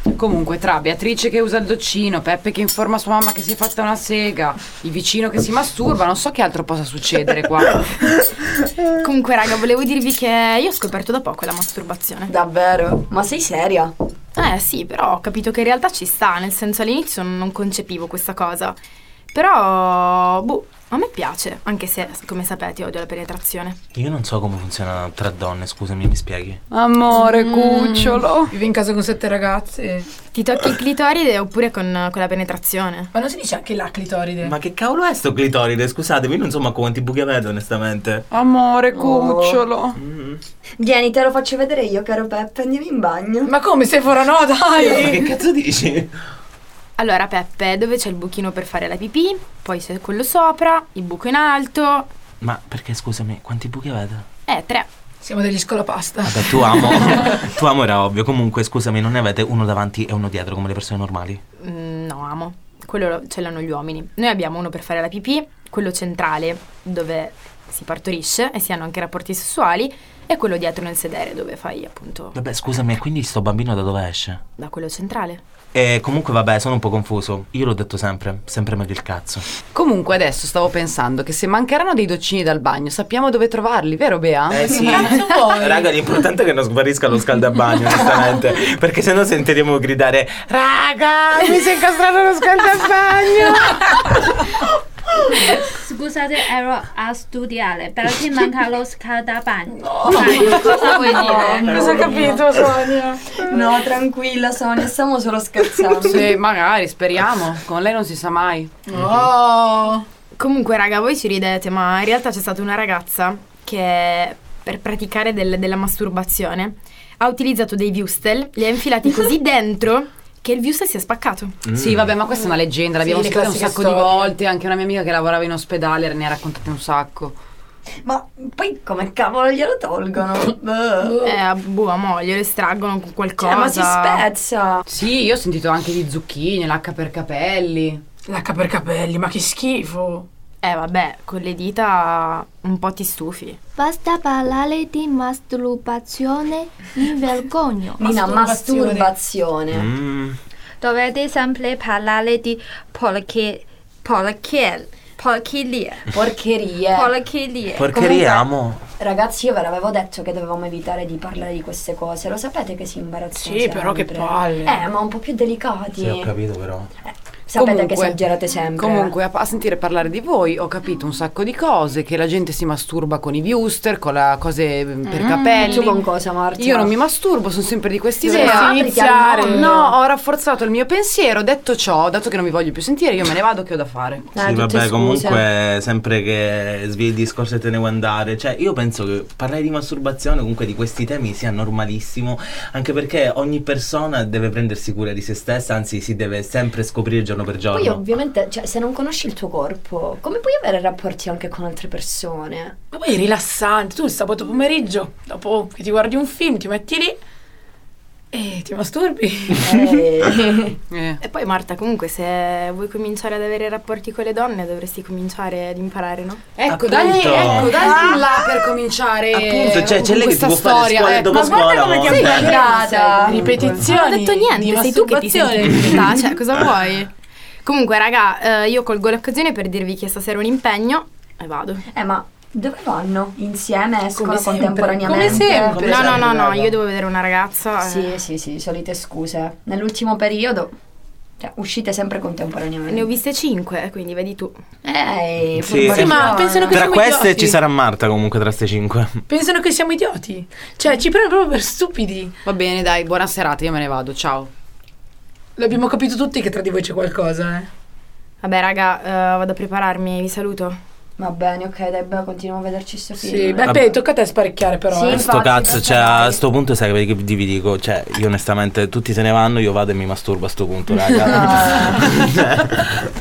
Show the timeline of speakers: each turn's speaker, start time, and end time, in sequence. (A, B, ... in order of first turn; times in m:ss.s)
0:00.1-0:08.1 A
0:08.8-0:12.3 B
0:12.3-0:13.9 C
0:14.4-0:18.8 B
0:19.3-0:23.8 B
0:24.0-0:26.6 D
0:26.7-0:28.5 A
0:27.3-0:30.1 E
0:30.3-0:33.1 B
0:33.1-0:34.6 E
0:34.4-0:38.3 D
0:38.3-0:40.0 A
0:38.9-0:39.7 C
0:40.0-0:40.4 D
0:40.8-0:43.5 C
0:43.4-0:45.2 E
0:44.8-0:46.1 D
0:47.0-0:52.1 B
0:52.4-0:54.2 D
0:54.5-0:54.9 B
0:55.2-0:57.1 E
0:56.2-1:01.4 D
1:01.6-1:12.4 B
1:12.4-1:14.4 D
1:14.6-1:15.4 B
1:15.7-1:19.4 D
1:19.7-1:24.8 A
1:24.5-1:31.4 D
1:24.7-1:25.9 E
1:30.8-1:34.0 A
1:35.4-1:42.4 F
1:39.7-1:43.5 E
1:40.2-1:42.4 C
1:43.4-1:46.3 C
1:46.0-1:48.7 A
1:48.9-1:50.1 E
1:50.4-2:01.6 B
2:01.7-2:02.1 D
2:01.7-2:07.4 A
2:03.0-2:04.2 E
2:08.0-2:11.4 C
2:11.2-2:14.3 B
2:13.4-2:14.9 C
2:14.9-2:18.0 A
2:18.3-2:20.3 E
2:20.6-2:23.6 B
2:23.8-2:28.0 G
2:28.0-2:29.9 C
2:28.0-2:29.1 E
2:29.7-2:30.4 D
2:30.8-2:36.1 F
2:36.1-2:37.2 C
2:36.9-2:37.9 F
2:37.8-2:38.8 D
2:37.9-2:38.4 C
2:39.0-2:46.3 C
2:43.4-2:44.8 E
2:46.0-2:46.9 D
2:47.1-2:49.2 C
2:47.5-2:48.2 A
2:48.8-2:56.1 A
2:55.5-2:57.0 C
2:56.6-3:04.3 A
2:58.2-2:59.8 C
3:04.4-3:05.4 C
3:04.4-3:18.1 D
3:17.7-3:22.8 C
3:22.9-3:27.2 E
3:28.3-3:29.6 E
3:29.6-3:30.8 C
3:30.9-3:31.2 A
3:31.2-3:36.4 B
3:36.6-3:41.5 A
3:36.7-3:38.0 D
3:37.1-3:38.2 B
3:39.3-3:42.7 D
3:41.3-3:42.6 E
3:42.0-3:42.6 B
3:42.0-3:43.7 C
3:42.5-3:43.8 A
3:43.2-3:46.4 E
3:43.8-3:47.1 B
3:47.6-3:51.8 B
3:51.9-3:56.2 C
3:54.2-3:55.6 E
3:55.0-3:56.8 D
3:55.2-3:58.2 B
3:57.8-4:00.7 C
4:01.4-4:03.1 C
4:02.9-4:04.6 B
4:04.8-4:06.9 C
4:05.6-4:09.2 D
4:05.9-4:07.6 E
4:09.3-4:12.4 E
4:12.4-4:14.5 A
4:15.6-4:17.7 E
4:18.4-4:20.8 B
4:21.2-4:23.9 C
4:23.2-4:25.1 E
4:23.6-4:23.9 D
4:24.9-4:26.4 C
4:25.1-4:32.9 D
4:31.3-4:32.0 C